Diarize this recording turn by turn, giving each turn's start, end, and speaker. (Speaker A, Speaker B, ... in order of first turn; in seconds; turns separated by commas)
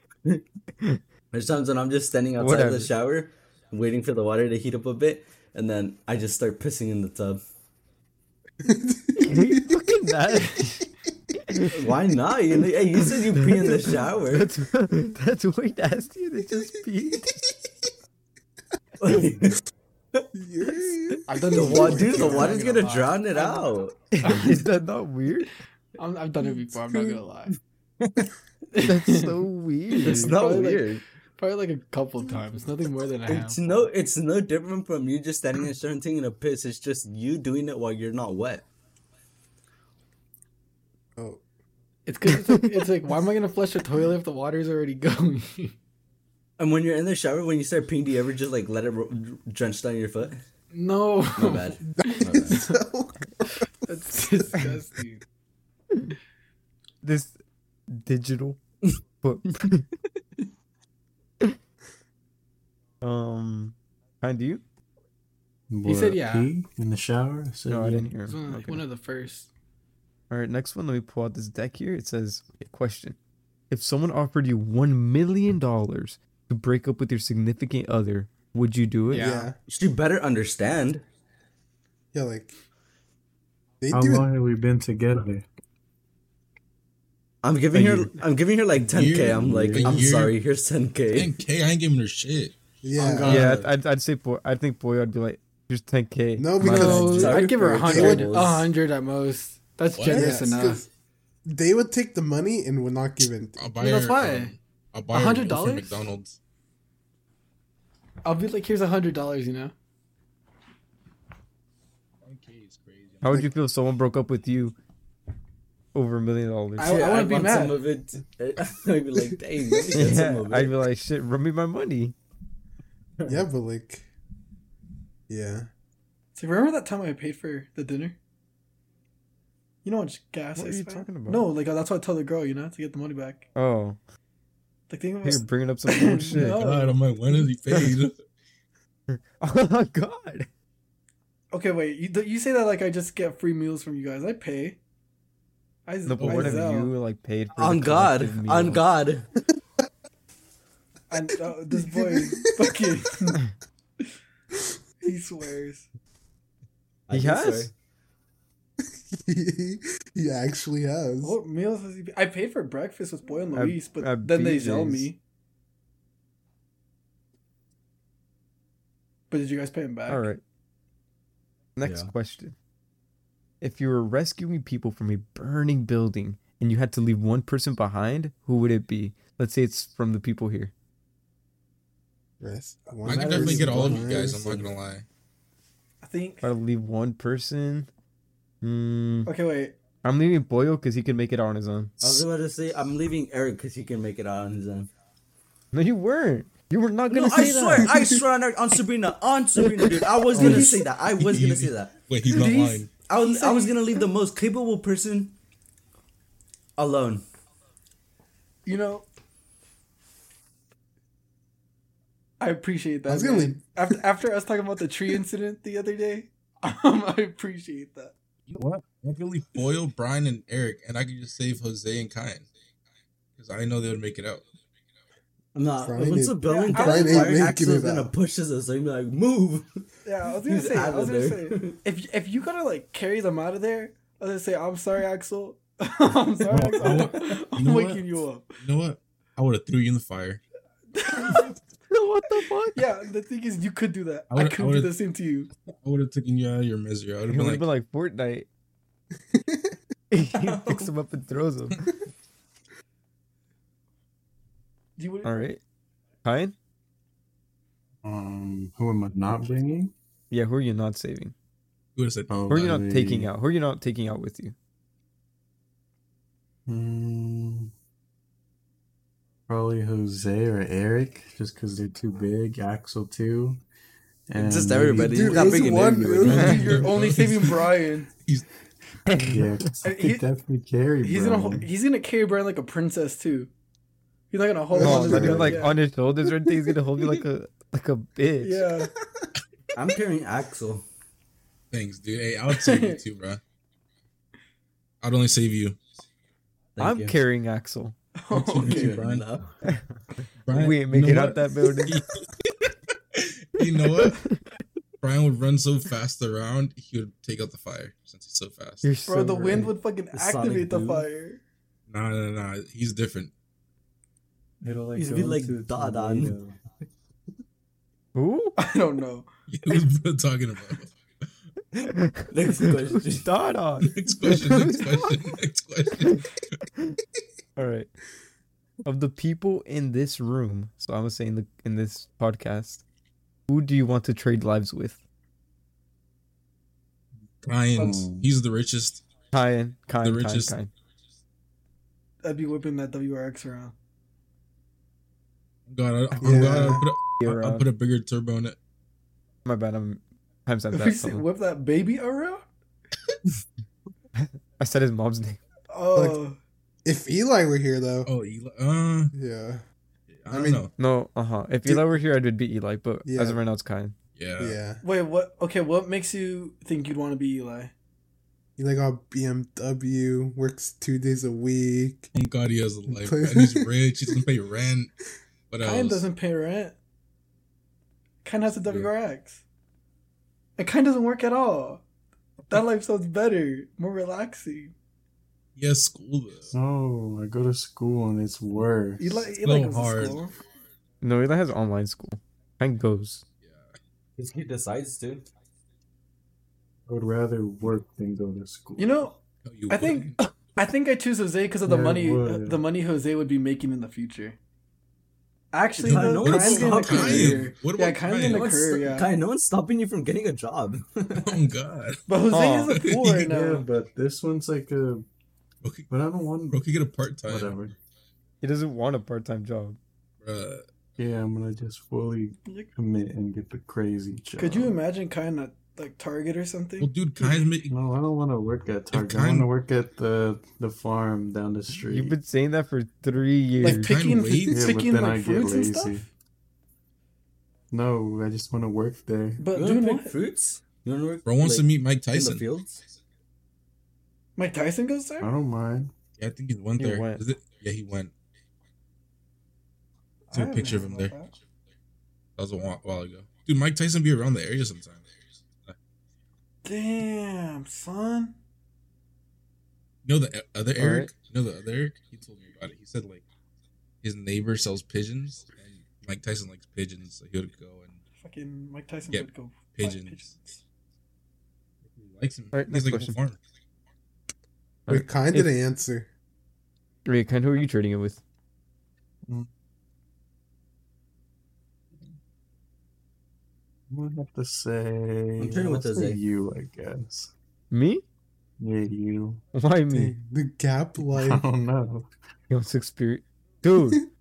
Speaker A: 1.3-7.4, Speaker B: 2.4-2.9, Speaker C: 8.6-9.9, Speaker B: 9.2-10.9, Speaker B: 11.5-11.7, Speaker A: 11.7-14.5, Speaker B: 14.3-17.4, Speaker A: 19.0-19.6, Speaker C: 20.3-22.6, Speaker D: 21.3-24.6, Speaker A: 21.5-23.9, Speaker B: 24.1-25.5, Speaker D: 26.0-27.6, Speaker D: 28.7-33.9, Speaker B: 28.8-30.4, Speaker A: 30.0-31.0, Speaker A: 33.3-38.6, Speaker C: 41.2-41.4, Speaker D: 42.0-45.7, Speaker A: 46.6-50.4, Speaker D: 50.7-52.6, Speaker A: 51.4-52.6, Speaker C: 51.9-53.5, Speaker D: 53.8-55.2, Speaker B: 57.0-57.3, Speaker B: 57.9-58.6, Speaker B: 59.2-59.9, Speaker B: 63.0-64.6, Speaker E: 65.7-68.1, Speaker D: 65.8-66.5, Speaker B: 67.7-68.8, Speaker D: 68.2-69.5, Speaker B: 70.3-73.2, Speaker B: 73.7-79.3, Speaker D: 79.1-79.5, Speaker C: 79.1-79.5, Speaker A: 79.7-81.0, Speaker C: 82.1-82.5, Speaker C: 83.8-84.3, Speaker E: 83.9-85.4, Speaker A: 87.4-91.3, Speaker F: 88.9-90.3, Speaker E: 89.2-90.2, Speaker F: 91.1-92.6, Speaker C: 92.8-93.5, Speaker A: 93.0-93.5, Speaker E: 93.1-93.6, Speaker B: 93.2-97.4, Speaker C: 96.3-98.5, Speaker A: 96.6-98.7, Speaker D: 96.7-100.8, Speaker F: 99.9-100.4, Speaker C: 100.1-100.8, Speaker C: 101.5-103.7, Speaker F: 103.6-106.4, Speaker D: 103.8-104.5, Speaker D: 105.1-106.0, Speaker D: 108.2-109.7, Speaker F: 112.2-113.4, Speaker B: 113.2-114.8, Speaker B: 115.9-117.0, Speaker D: 116.8-117.8, Speaker A: 116.8-120.8, Speaker B: 119.9-122.2, Speaker C: 123.2-124.1, Speaker C: 125.3-125.7, Speaker D: 126.3-128.2, Speaker D: 129.8-133.5, Speaker B: 130.6-131.4, Speaker B: 133.6-134.0, Speaker D: 134.9-137.5, Speaker B: 135.2-136.6, Speaker F: 136.4-138.1, Speaker B: 139.1-140.5, Speaker D: 141.5-144.8, Speaker D: 145.8-146.9, Speaker B: 146.1-148.8, Speaker F: 146.2-146.6, Speaker A: 147.6-149.3, Speaker D: 151.1-153.4, Speaker C: 151.7-152.6, Speaker D: 155.0-155.9, Speaker A: 157.1-157.7, Speaker B: 157.1-157.7, Speaker C: 159.1-161.4, Speaker D: 161.2-165.2, Speaker B: 163.5-165.1, Speaker D: 169.3-170.3, Speaker B: 170.1-170.4, Speaker B: 171.8-172.6, Speaker A: 171.8-172.1, Speaker B: 173.6-180.7, Speaker C: 182.4-184.6, Speaker F: 183.0-185.0, Speaker A: 183.1-184.7, Speaker D: 186.0-186.5, Speaker B: 186.4-187.9, Speaker B: 188.6-189.3, Speaker D: 189.2-189.7, Speaker B: 190.0-192.2, Speaker A: 192.0-194.9, Speaker B: 195.7-197.9, Speaker A: 197.1-201.9, Speaker D: 200.3-200.8, Speaker F: 200.4-202.9, Speaker D: 202.3-203.8, Speaker A: 203.1-205.3, Speaker A: 206.8-207.2, Speaker D: 208.6-209.1, Speaker D: 212.4-218.1, Speaker C: 213.1-214.0, Speaker F: 218.5-222.5, Speaker F: 223.4-224.4, Speaker A: 225.5-229.8, Speaker C: 225.8-228.1, Speaker D: 226.4-227.5, Speaker D: 230.0-238.6, Speaker A: 230.4-231.8, Speaker F: 236.5-240.4, Speaker D: 240.9-241.6, Speaker B: 241.9-242.8, Speaker D: 242.7-245.5, Speaker F: 244.3-244.9, Speaker F: 245.7-247.7, Speaker B: 247.3-248.5, Speaker C: 249.4-249.7, Speaker B: 250.1-251.9, Speaker A: 250.4-250.8, Speaker D: 255.0-255.4, Speaker B: 255.2-255.6, Speaker B: 256.2-256.5, Speaker E: 258.0-259.9, Speaker B: 260.3-261.3, Speaker F: 261.9-262.7, Speaker E: 262.3-263.3, Speaker B: 262.5-264.5, Speaker E: 266.7-267.7, Speaker E: 269.5-273.6, Speaker E: 274.3-275.7, Speaker A: 274.3-276.5, Speaker C: 275.0-276.9, Speaker F: 276.2-278.5, Speaker D: 276.3-278.1, Speaker B: 279.1-279.6, Speaker E: 279.2-281.7, Speaker D: 279.8-280.2, Speaker D: 281.0-283.5, Speaker D: 284.3-285.8, Speaker C: 284.7-285.7, Speaker B: 284.8-288.6, Speaker D: 286.4-287.2, Speaker D: 288.4-288.9, Speaker A: 289.7-290.9, Speaker F: 291.7-293.4, Speaker D: 292.5-293.0, Speaker F: 295.0-295.8, Speaker A: 296.8-297.2, Speaker B: 296.8-297.9, Speaker D: 298.2-299.0, Speaker F: 298.3-299.2, Speaker A: 298.6-299.5, Speaker B: 299.6-302.0, Speaker F: 300.4-302.3, Speaker F: 303.1-304.2, Speaker B: 304.0-304.4, Speaker F: 305.0-308.9, Speaker B: 308.8-309.7, Speaker D: 309.1-311.4, Speaker A: 310.1-311.1, Speaker F: 311.9-313.3, Speaker E: 314.6-316.6, Speaker D: 315.0-315.3, Speaker A: 315.0-316.3, Speaker B: 318.1-318.6, Speaker D: 318.6-319.3, Speaker F: 319.5-320.9, Speaker B: 321.7-322.3, Speaker A: 322.3-323.3, Speaker B: 322.9-325.1, Speaker F: 323.8-326.3, Speaker B: 327.6-327.9, Speaker B: 328.8-332.8, Speaker B: 333.5-335.0, Speaker F: 337.4-339.0, Speaker E: 337.8-338.3, Speaker B: 339.3-340.7, Speaker F: 340.0-340.6, Speaker D: 342.2-343.7, Speaker F: 345.7-348.6, Speaker B: 346.1-347.6, Speaker C: 346.2-346.9, Speaker B: 349.4-351.2, Speaker D: 350.7-352.5, Speaker B: 354.1-355.4, Speaker D: 355.7-356.4, Speaker C: 355.9-356.2, Speaker C: 356.8-358.1, Speaker F: 358.0-359.1, Speaker C: 359.1-359.6, Speaker F: 360.1-360.7, Speaker C: 360.3-360.7, Speaker B: 360.8-363.9, Speaker C: 361.6-362.0, Speaker C: 363.0-363.4, Speaker F: 364.1-364.6, Speaker C: 364.4-364.8, Speaker D: 364.8-367.7, Speaker C: 368.6-372.1, Speaker F: 372.1-374.9, Speaker C: 372.9-374.2, Speaker F: 375.5-376.0, Speaker D: 375.6-376.8, Speaker D: 378.2-379.4, Speaker F: 378.6-378.9, Speaker D: 380.6-381.8, Speaker D: 382.5-384.7, Speaker F: 385.6-386.5, Speaker E: 386.5-389.2, Speaker D: 389.0-390.3, Speaker F: 389.3-390.3, Speaker B: 391.0-393.2, Speaker F: 393.4-393.7, Speaker A: 394.2-395.2, Speaker E: 396.9-399.0, Speaker D: 398.8-399.2, Speaker F: 399.4-400.2, Speaker D: 399.7-404.4, Speaker E: 401.6-402.6, Speaker D: 405.5-409.1, Speaker F: 405.8-408.5, Speaker A: 405.8-407.5, Speaker A: 408.2-411.4, Speaker F: 411.1-412.0, Speaker D: 412.1-413.7, Speaker B: 412.3-412.7, Speaker F: 412.7-413.3, Speaker E: 413.1-415.0, Speaker F: 415.6-415.9, Speaker E: 415.9-416.6, Speaker F: 416.5-417.6, Speaker E: 417.3-417.7, Speaker B: 418.4-419.8, Speaker F: 420.2-420.6, Speaker E: 421.0-424.8, Speaker D: 424.4-427.3, Speaker F: 426.8-427.7, Speaker E: 427.7-432.1, Speaker F: 428.9-429.5, Speaker B: 431.9-433.9, Speaker D: 433.6-436.1, Speaker F: 433.6-434.7, Speaker E: 434.5-436.1, Speaker E: 437.7-439.4, Speaker D: 439.4-440.1, Speaker A: 439.5-442.8, Speaker F: 441.2-442.4, Speaker D: 444.4-445.3, Speaker E: 445.2-445.9, Speaker F: 446.2-448.1, Speaker B: 446.8-447.2, Speaker D: 450.3-451.3, Speaker F: 450.3-451.1, Speaker F: 452.4-455.1, Speaker D: 456.6-458.3, Speaker F: 460.0-463.2, Speaker B: 460.8-461.1, Speaker F: 464.0-468.0, Speaker D: 468.2-470.6, Speaker F: 469.1-470.3, Speaker F: 471.9-473.4, Speaker B: 472.5-473.2, Speaker B: 474.9-475.5, Speaker C: 474.9-476.1, Speaker B: 477.1-478.2, Speaker E: 483.9-487.3, Speaker A: 485.4-486.2, Speaker B: 487.7-488.0, Speaker E: 488.6-489.4, Speaker B: 489.5-490.1, Speaker C: 489.9-491.4, Speaker E: 491.1-492.1, Speaker B: 492.5-494.0